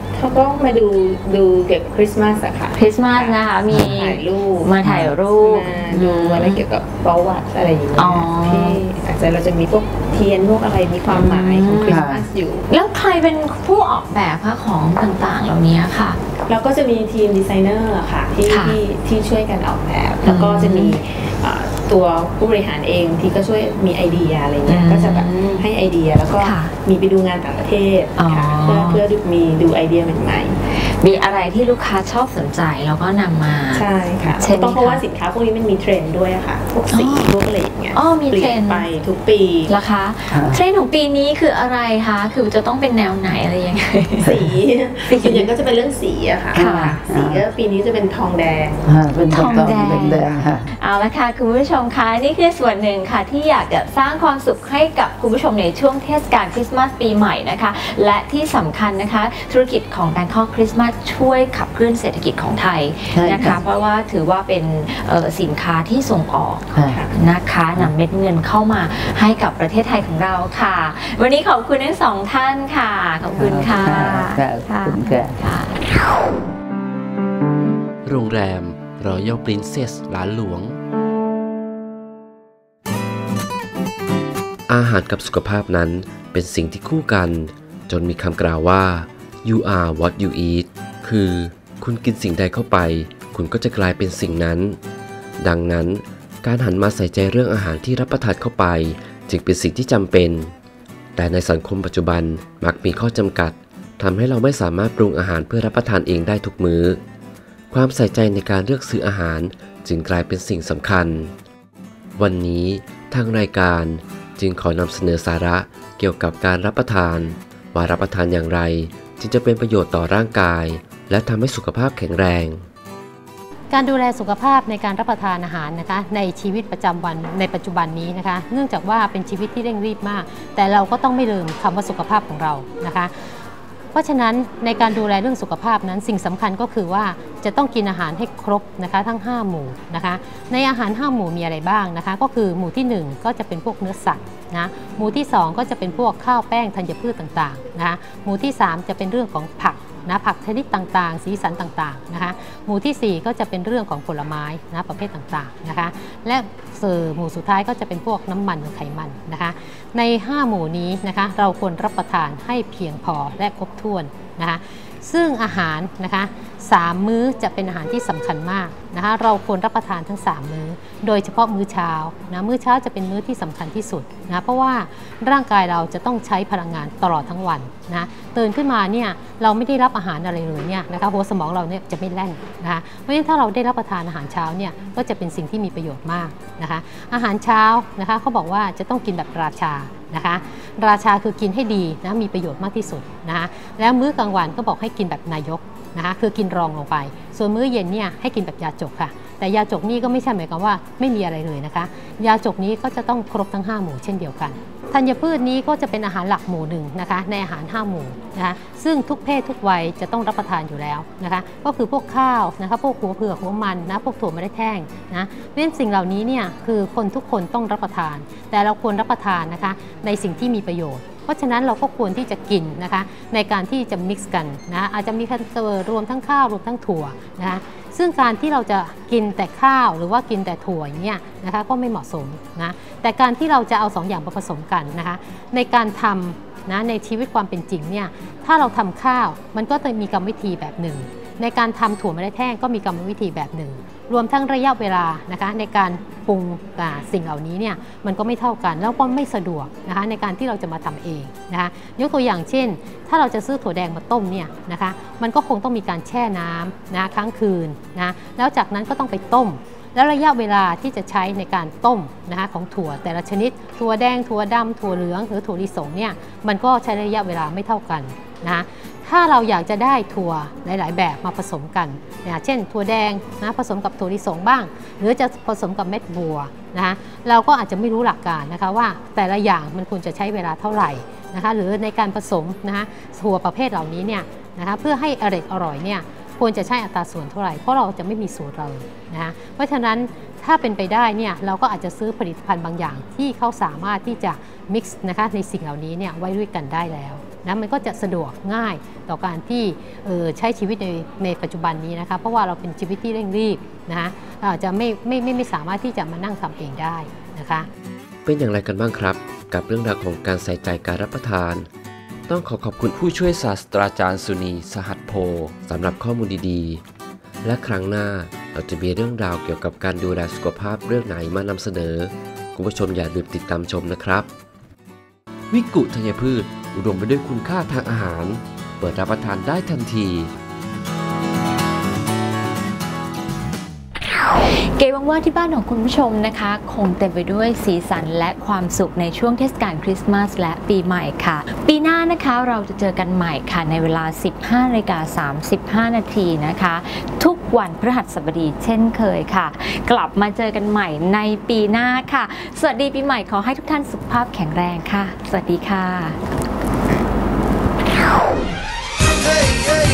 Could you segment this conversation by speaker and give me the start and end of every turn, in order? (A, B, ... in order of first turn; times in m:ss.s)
0:00.1-0:03.3 A
0:02.7-0:06.6 B
0:03.8-0:04.7 A
0:04.8-0:05.2 C
0:05.4-0:12.6 A
0:07.9-0:08.8 B
0:11.0-0:12.2 B
0:11.8-0:12.3 C
0:12.7-0:16.2 B
0:16.5-0:30.5 A
0:18.4-0:18.8 B
0:20.2-0:21.0 B
0:24.6-0:25.6 B
0:26.4-0:26.7 B
0:28.2-0:29.0 B
0:30.8-0:35.0 B
0:33.7-0:39.7 A
0:36.9-0:37.4 B
0:37.9-0:38.9 B
0:39.6-0:44.5 B
0:40.3-0:40.6 C
0:44.3-0:48.8 A
0:45.1-0:45.5 B
0:46.5-0:47.0 B
0:46.5-0:47.5 C
0:48.8-0:50.7 C
0:49.3-1:15.8 B
1:03.1-1:03.6 C
1:06.7-1:07.0 C
1:13.3-1:15.4 C
1:18.0-1:20.8 D
1:24.7-1:34.8 D
1:35.4-1:40.5 D
1:41.2-1:47.0 D
1:47.7-1:51.3 D
1:52.2-2:02.6 D
2:03.7-2:13.1 E
2:13.9-5:07.7 E
5:08.2-5:11.7 D
5:12.3-5:16.8 D
5:17.4-5:24.3 D
5:25.5-5:30.3 D
5:34.8-5:56.2 B